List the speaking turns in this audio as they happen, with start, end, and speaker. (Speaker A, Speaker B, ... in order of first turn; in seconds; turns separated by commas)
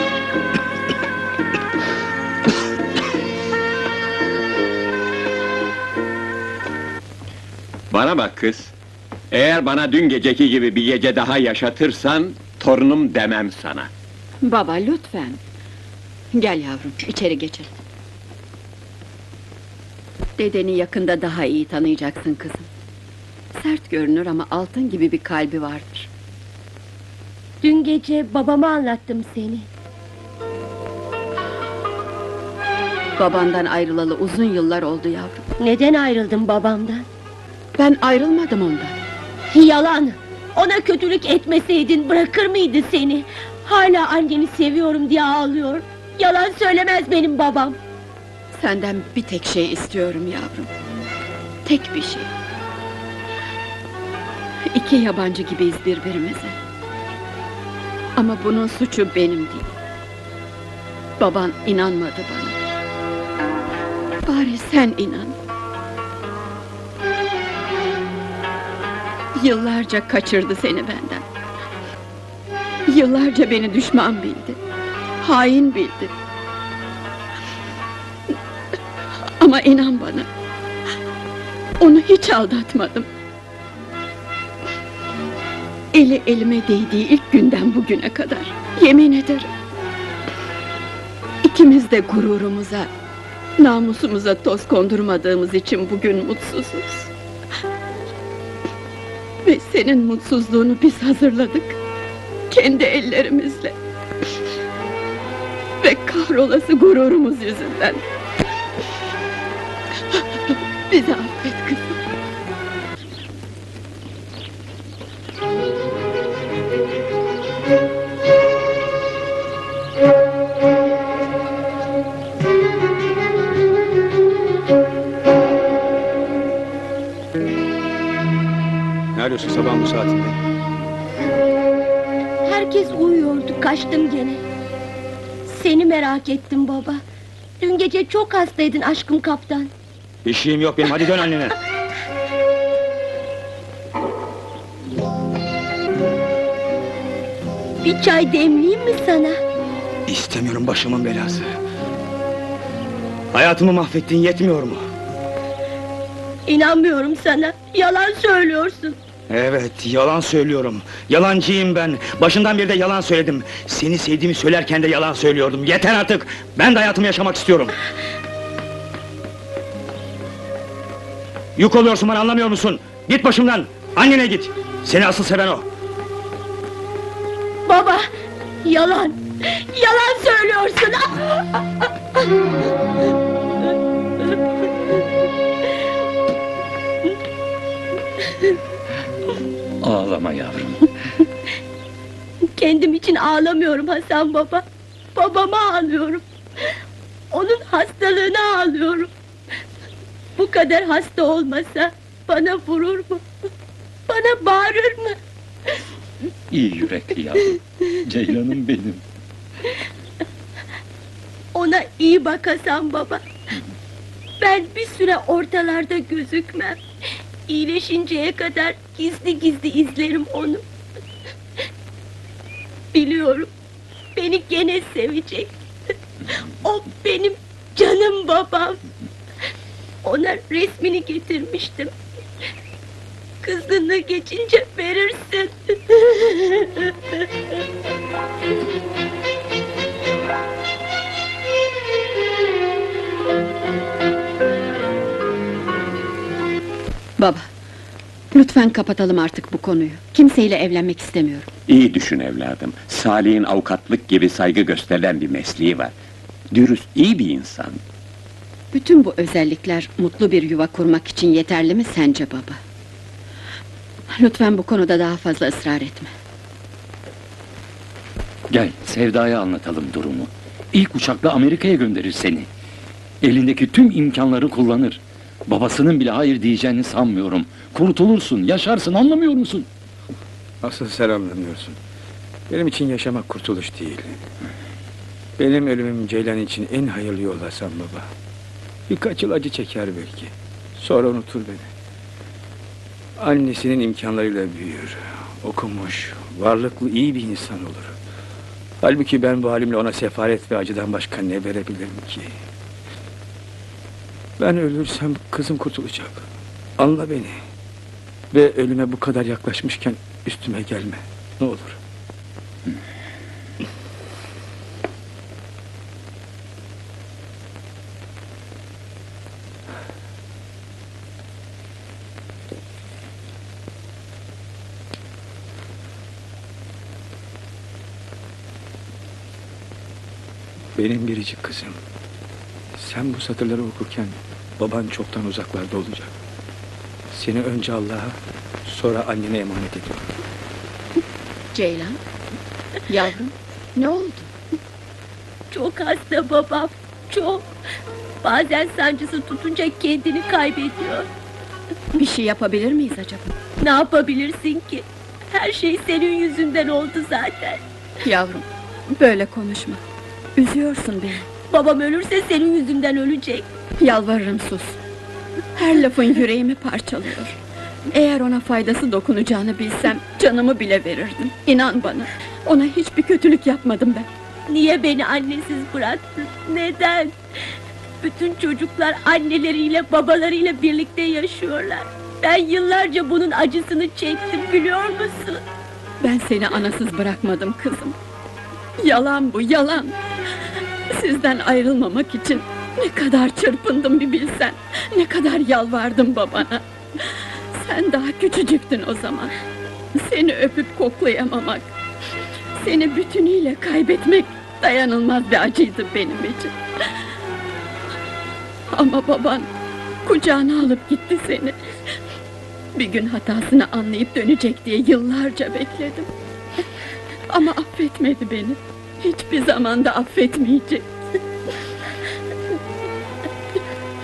Speaker A: 7.9-8.7, Speaker A: 9.3-13.9, Speaker B: 14.4-15.4, Speaker B: 16.3-17.7, Speaker B: 20.4-22.7, Speaker B: 23.6-26.1, Speaker C: 27.6-29.7, Speaker B: 33.2-35.4, Speaker C: 35.6-37.0, Speaker B: 37.8-38.9, Speaker C: 39.5-47.8, Speaker B: 48.5-50.7, Speaker B: 51.6-52.3, Speaker B: 54.7-56.5, Speaker B: 58.2-59.7, Speaker B: 61.2-62.5, Speaker B: 64.3-65.3, Speaker B: 69.4-71.2, Speaker B: 72.9-74.6, Speaker B: 75.2-76.1, Speaker B: 79.4-80.3, Speaker B: 81.8-83.1, Speaker B: 85.9-89.5, Speaker B: 91.4-92.9, Speaker B: 93.6-97.1, Speaker B: 99.4-101.8, Speaker B: 102.5-103.7, Speaker B: 105.8-108.0, Speaker B: 110.9-112.0, Speaker D: 129.1-130.4, Speaker C: 132.4-134.4, Speaker C: 135.4-137.0, Speaker C: 137.6-139.7, Speaker D: 140.2-141.5, Speaker C: 147.8-149.4, Speaker D: 150.1-151.5, Speaker D: 153.3-154.8, Speaker C: 156.5-159.0, Speaker D: 159.3-167.7, Speaker D: 171.6-175.7, Speaker C: 177.7-178.1, Speaker C: 178.6-181.4, Speaker E: 189.8-190.8, Speaker C: 192.6-194.6, Speaker C: 195.1-196.2, Speaker C: 197.3-199.1, Speaker C: 200.4-203.2, Speaker C: 204.1-205.2, Speaker E: 206.5-209.0, Speaker C: 211.5-213.2, Speaker C: 214.4-216.8, Speaker C: 217.5-220.6, Speaker C: 222.9-223.5, Speaker C: 224.2-225.6, Speaker C: 226.6-228.8, Speaker C: 230.0-231.9, Speaker C: 233.4-236.9, Speaker B: 247.2-247.4, Speaker B: 248.3-251.5, Speaker A: 251.7-255.9, Speaker A: 256.5-257.8, Speaker B: 258.7-262.6, Speaker B: 264.1-266.1, Speaker E: 268.5-272.5, Speaker E: 273.2-279.7, Speaker D: 280.6-281.8, Speaker D: 282.5-284.2, Speaker D: 285.4-288.1, Speaker D: 288.9-291.7, Speaker D: 293.2-297.9, Speaker D: 298.8-302.3, Speaker D: 304.4-306.2, Speaker D: 306.8-307.4, Speaker D: 308.3-311.8, Speaker D: 330.8-331.8, Speaker D: 332.8-336.1, Speaker D: 337.1-340.1, Speaker B: 341.5-342.0, Speaker B: 342.9-344.3, Speaker C: 345.5-347.5, Speaker C: 348.2-351.1, Speaker B: 351.9-353.3, Speaker C: 353.6-357.6, Speaker B: 358.0-359.8, Speaker B: 360.4-361.3, Speaker C: 361.5-363.5, Speaker B: 363.8-364.8, Speaker B: 365.6-367.4, Speaker B: 367.9-374.1, Speaker C: 374.5-377.1, Speaker C: 378.0-385.4, Speaker B: 386.0-387.9, Speaker B: 388.8-389.9, Speaker B: 390.9-399.3, Speaker B: 399.9-401.7, Speaker B: 402.6-406.5, Speaker B: 408.7-409.5, Speaker B: 410.0-411.6, Speaker B: 412.7-416.1, Speaker B: 417.3-420.9